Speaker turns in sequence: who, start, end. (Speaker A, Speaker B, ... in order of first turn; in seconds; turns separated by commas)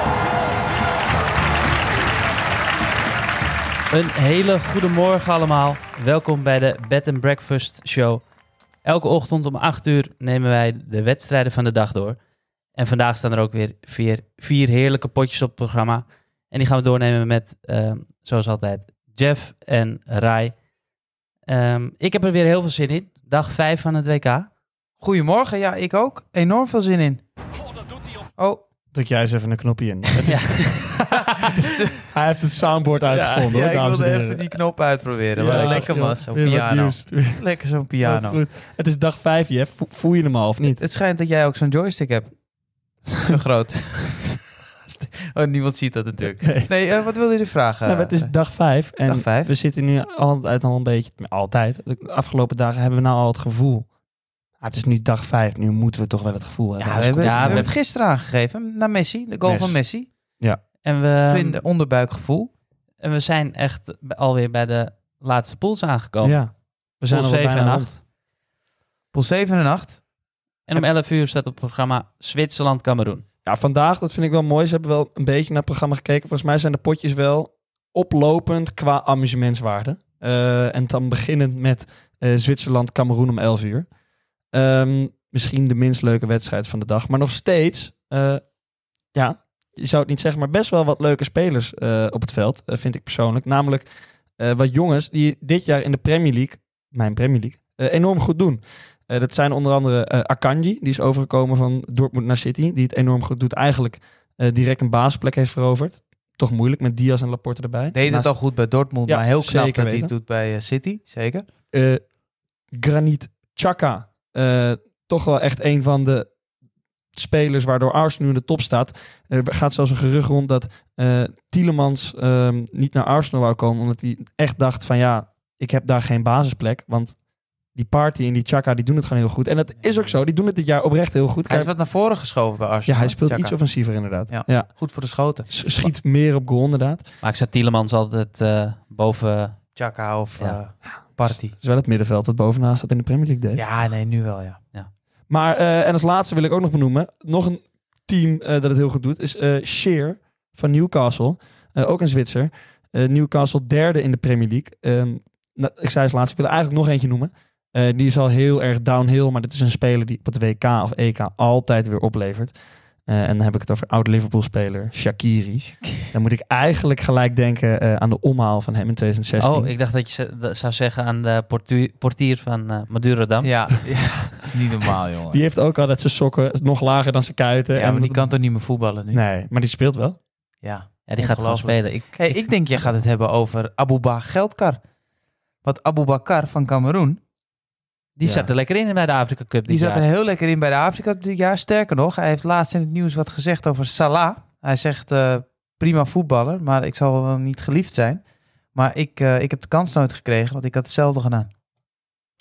Speaker A: 3.9-8.2, Speaker A: 8.8-12.2, Speaker A: 12.7-20.5, Speaker A: 21.5-24.5, Speaker B: 25.0-27.2, Speaker B: 28.4-28.6, Speaker C: 28.9-31.0, Speaker A: 30.2-31.6, Speaker B: 31.1-32.0, Speaker C: 32.1-34.5, Speaker A: 33.1-33.5, Speaker B: 33.1-38.4, Speaker C: 35.3-37.4, Speaker A: 35.5-35.8, Speaker C: 38.0-40.8, Speaker B: 40.7-42.3, Speaker B: 43.1-48.3, Speaker C: 46.4-46.7, Speaker C: 47.9-53.9, Speaker B: 49.0-49.5, Speaker C: 54.6-57.7, Speaker B: 56.8-60.1, Speaker A: 57.2-57.7, Speaker C: 59.4-59.8, Speaker A: 60.8-61.6, Speaker B: 61.2-62.5, Speaker A: 63.0-66.4, Speaker C: 66.2-67.9, Speaker A: 67.1-68.0, Speaker B: 69.1-70.0, Speaker A: 70.7-73.2, Speaker C: 73.4-83.9, Speaker C: 84.5-88.4, Speaker C: 89.1-108.4, Speaker B: 107.9-111.5, Speaker C: 109.0-110.1, Speaker C: 111.7-112.0, Speaker C: 112.7-116.3, Speaker C: 117.1-127.2, Speaker C: 127.7-131.7, Speaker B: 131.5-135.9, Speaker C: 132.9-134.8, Speaker C: 135.5-137.0, Speaker A: 137.2-139.6, Speaker B: 139.8-141.5, Speaker C: 140.8-143.6, Speaker B: 143.6-144.6, Speaker C: 145.3-162.5, Speaker C: 163.1-169.7, Speaker A: 169.4-173.7, Speaker B: 173.4-175.4, Speaker C: 175.3-178.3, Speaker B: 177.7-179.2, Speaker C: 179.1-180.2, Speaker B: 180.6-184.8, Speaker A: 181.1-182.5, Speaker B: 185.6-187.2, Speaker A: 188.2-190.0, Speaker C: 188.2-188.5, Speaker B: 189.7-198.2, Speaker B: 198.7-201.5